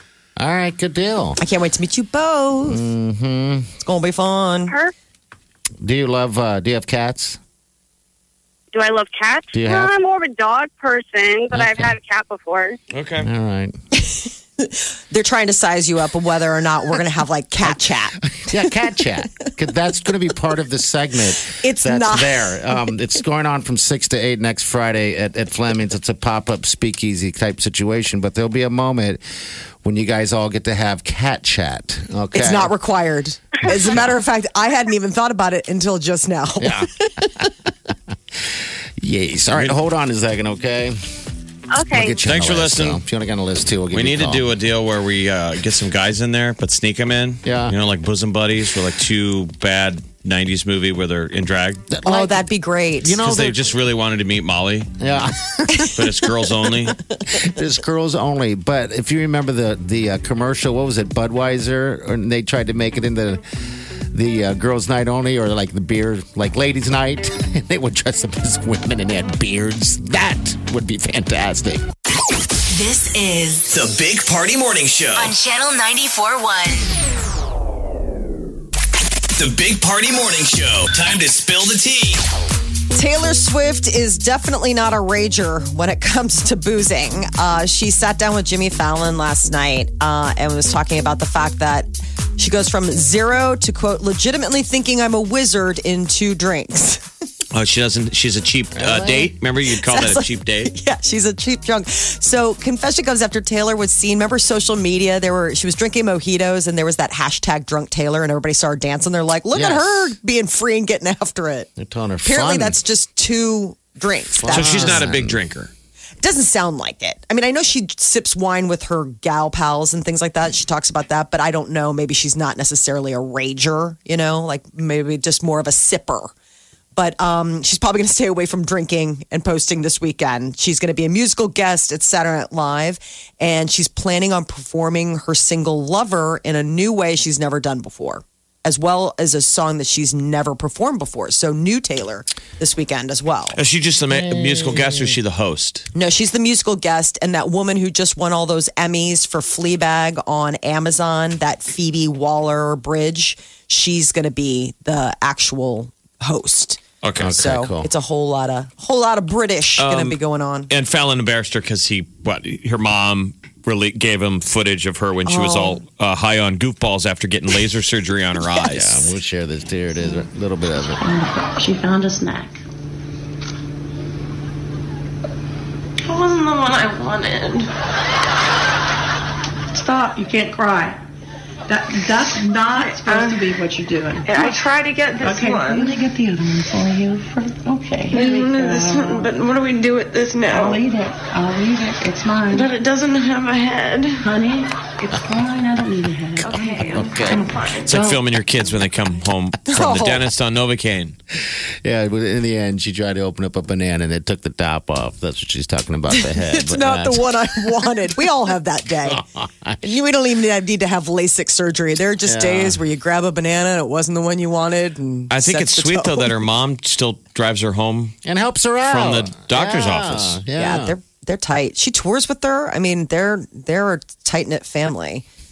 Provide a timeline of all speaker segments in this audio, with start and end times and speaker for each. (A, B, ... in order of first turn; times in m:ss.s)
0:00.4-0:01.4 A
0:01.4-0:02.8 B
0:02.7-0:03.7 A
0:03.8-0:04.8 B
0:05.8-0:07.4 A
0:08.7-0:12.8 C
0:09.5-0:09.9 A
0:11.5-0:11.9 A
0:12.9-0:13.3 D
0:13.2-0:13.8 A
0:14.0-0:18.7 B
0:17.7-0:29.2 A
0:21.4-0:22.7 B
0:29.8-0:32.7 A
0:32.3-0:37.3 B
0:33.7-0:34.1 A
0:36.6-0:37.5 A
0:39.0-0:41.0 A
0:41.7-0:42.2 C
0:41.9-0:44.4 A
0:42.2-0:43.0 D
0:43.9-0:51.9 D
0:47.4-0:47.8 A
0:51.9-0:52.5 A
0:52.0-0:53.2 B
0:53.0-0:53.7 A
0:53.2-0:55.0 D
0:55.0-0:56.2 A
0:55.9-0:57.0 D
0:57.3-1:03.4 A
1:04.1-1:11.8 A
1:12.7-1:13.8 E
1:13.7-1:15.4 F
1:15.2-1:16.9 E
1:19.4-1:22.2 F
1:22.9-1:37.0 B
1:37.5-1:40.7 D
1:38.8-1:39.3 A
1:39.7-1:51.7 B
1:49.5-1:50.2 A
1:51.8-1:52.8 A
1:52.2-1:55.0 B
1:54.4-1:55.4 A
1:54.5-1:55.7 D
1:56.2-2:06.3 B
2:07.0-2:23.6 B
2:23.6-2:25.9 D
2:24.1-2:25.2 A
2:25.9-2:40.7 B
2:37.0-2:37.4 D
2:37.2-2:37.9 A
2:39.8-2:40.2 D
2:40.7-2:49.0 D
2:45.3-2:45.8 B
2:48.7-2:51.0 A
2:51.0-2:52.6 G
2:56.0-2:57.7 H
2:59.7-3:01.0 G
3:01.7-3:04.7 G
3:02.7-3:03.5 H
3:04.2-3:06.0 H
3:05.2-3:09.4 G
3:08.1-3:10.8 H
3:10.5-3:12.8 G
3:12.5-3:14.2 H
3:14.2-3:18.2 G
3:16.4-3:18.0 H
3:16.6-3:17.4 A
3:17.9-3:21.2 D
3:19.7-3:20.2 B
3:21.8-3:27.8 A
3:26.1-3:29.2 B
3:29.1-3:29.8 A
3:29.8-3:36.3 B
3:32.2-3:32.8 A
3:35.3-3:38.2 D
3:38.2-3:41.0 A
3:38.9-3:40.4 D
3:40.6-3:45.2 B